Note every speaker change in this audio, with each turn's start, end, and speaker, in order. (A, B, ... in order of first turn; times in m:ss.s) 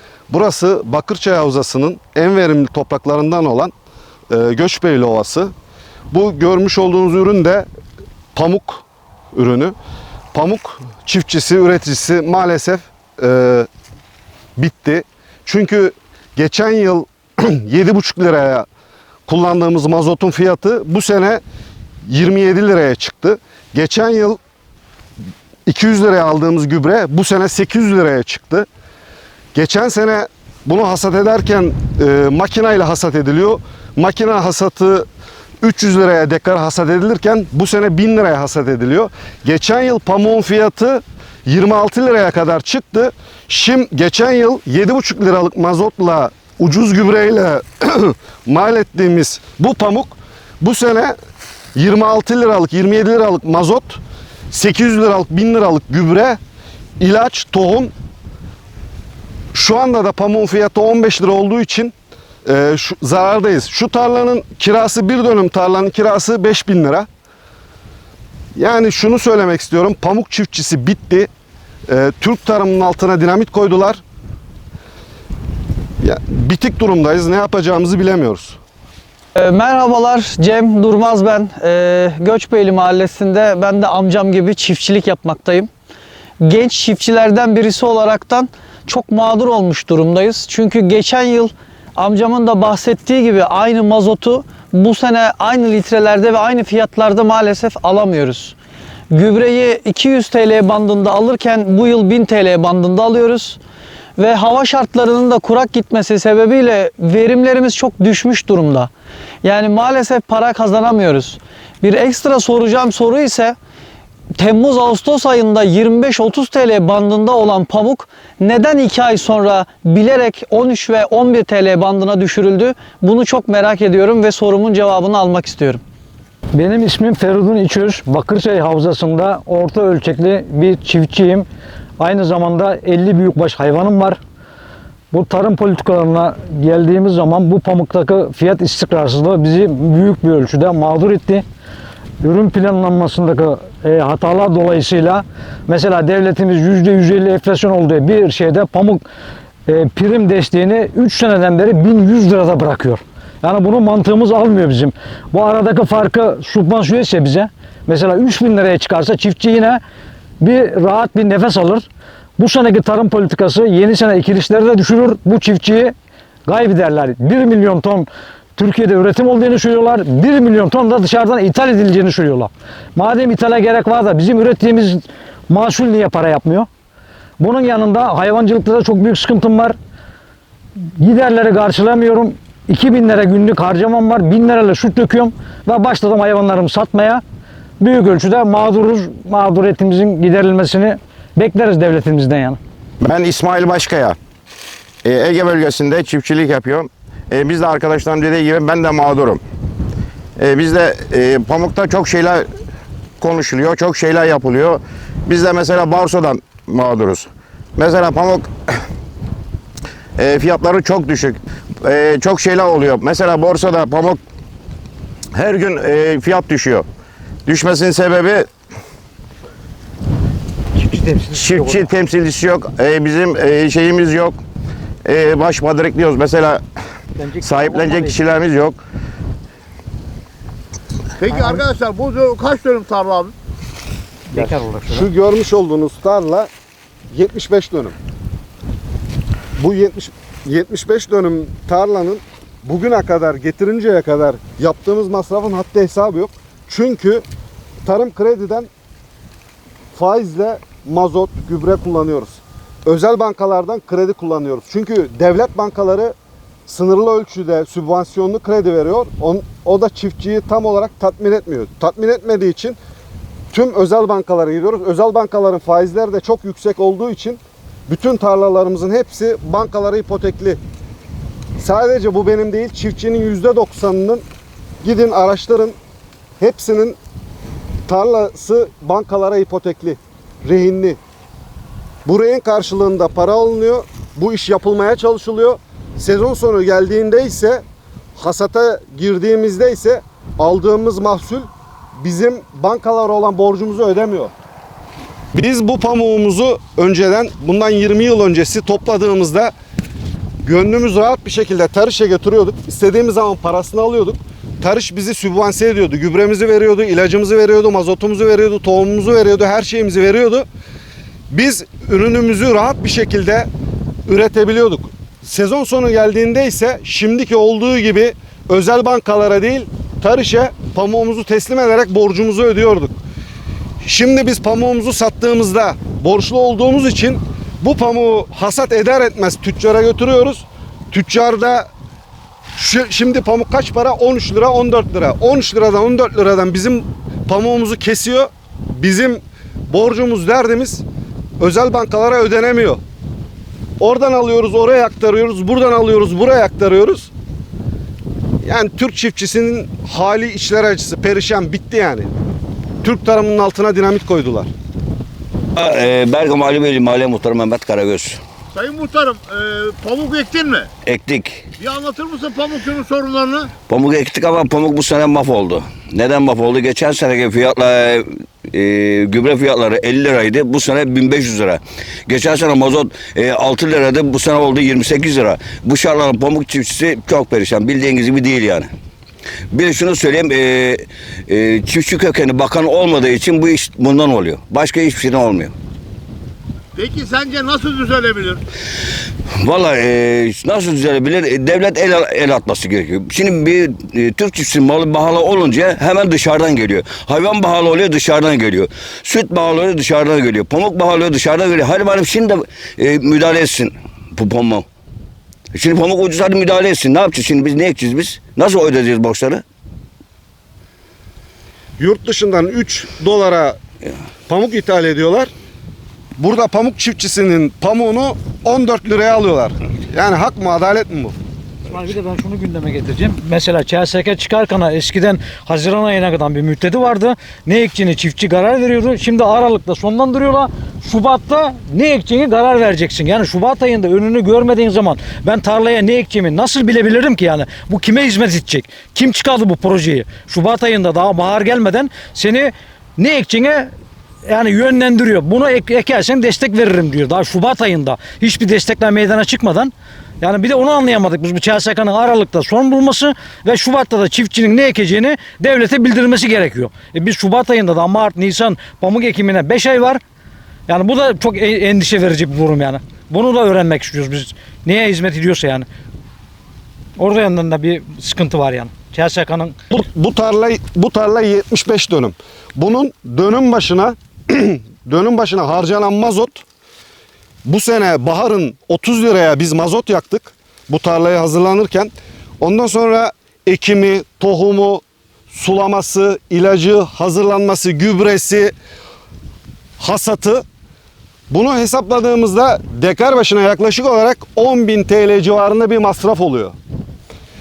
0:00.3-0:03.7 A
0:04.3-0:05.5 A
0:06.1-0:07.7 A
0:08.3-0:09.8 A
0:10.3-0:13.7 A
0:14.6-0:18.7 A
0:19.3-0:21.4 A
0:22.0-0:24.4 A
0:25.6-0:28.7 A
0:29.5-0:35.1 A
0:35.6-0:51.1 A
0:51.8-0:54.0 A
0:54.5-0:56.4 A
0:57.0-0:57.9 A
0:59.5-1:01.9 A
1:02.4-1:07.1 A
1:08.5-1:11.3 A
1:11.9-1:14.0 A
1:16.0-1:18.6 A
1:19.3-1:25.7 B
1:26.4-1:38.5 B
1:39.1-1:43.6 B
1:44.2-1:48.9 B
1:49.4-1:53.6 B
1:54.4-2:05.8 B
2:06.5-2:11.5 C
2:12.0-2:14.2 C
2:15.1-2:21.4 C
2:22.2-2:29.0 C
2:29.7-2:39.8 C
2:40.4-2:41.8 C
2:42.4-2:45.9 C
2:46.5-2:56.7 C
2:57.4-2:59.8 C
3:01.0-3:07.2 C
3:07.8-3:12.6 C
3:13.0-3:14.2 D
3:15.0-3:19.4 D
3:20.4-3:22.5 D
3:23.2-3:28.5 D
3:30.2-3:34.2 D
3:35.3-3:36.8 D
3:37.4-3:38.5 D
3:41.1-3:41.8 C
3:41.2-3:44.4 D
3:45.0-3:46.6 D
3:47.2-3:48.2 C
3:47.4-3:48.8 D
3:51.2-3:53.3 E
3:54.3-3:55.0 C
3:54.9-3:56.5 A
3:57.1-3:58.0 A
3:59.6-4:07.2 A
4:07.8-4:08.7 A
4:09.9-4:16.1 A
4:16.7-4:22.8 A
4:23.5-4:30.6 A
4:31.6-4:34.2 A
4:34.8-4:35.8 A
4:36.4-4:37.0 A
4:37.8-4:41.0 A
4:42.0-4:47.6 A
4:48.2-4:54.3 A
4:55.3-4:59.5 A
5:00.4-5:10.5 A
5:11.3-5:13.5 A
5:14.1-5:23.0 A
5:23.8-5:31.7 A
5:32.6-5:40.8 A
5:41.4-5:42.8 A
5:43.8-5:47.1 A
5:48.4-5:52.1 A
5:52.8-5:54.5 A
5:55.5-5:58.2 F
5:58.5-6:00.7 E
6:00.8-6:01.4 F
6:01.6-6:03.5 E
6:03.7-6:18.7 F
6:19.5-6:25.5 F
6:26.7-6:28.4 E
6:29.4-6:44.6 F
6:45.5-6:49.4 F
6:51.8-6:53.6 A
6:54.3-6:55.3 A
6:56.2-7:01.2 A
7:01.7-7:23.7 C
7:24.2-7:40.0 C
7:40.7-7:45.7 C
7:47.0-7:49.6 C
7:49.7-7:56.4 A
7:57.4-8:08.5 A
8:09.8-8:10.4 A
8:11.3-8:16.5 A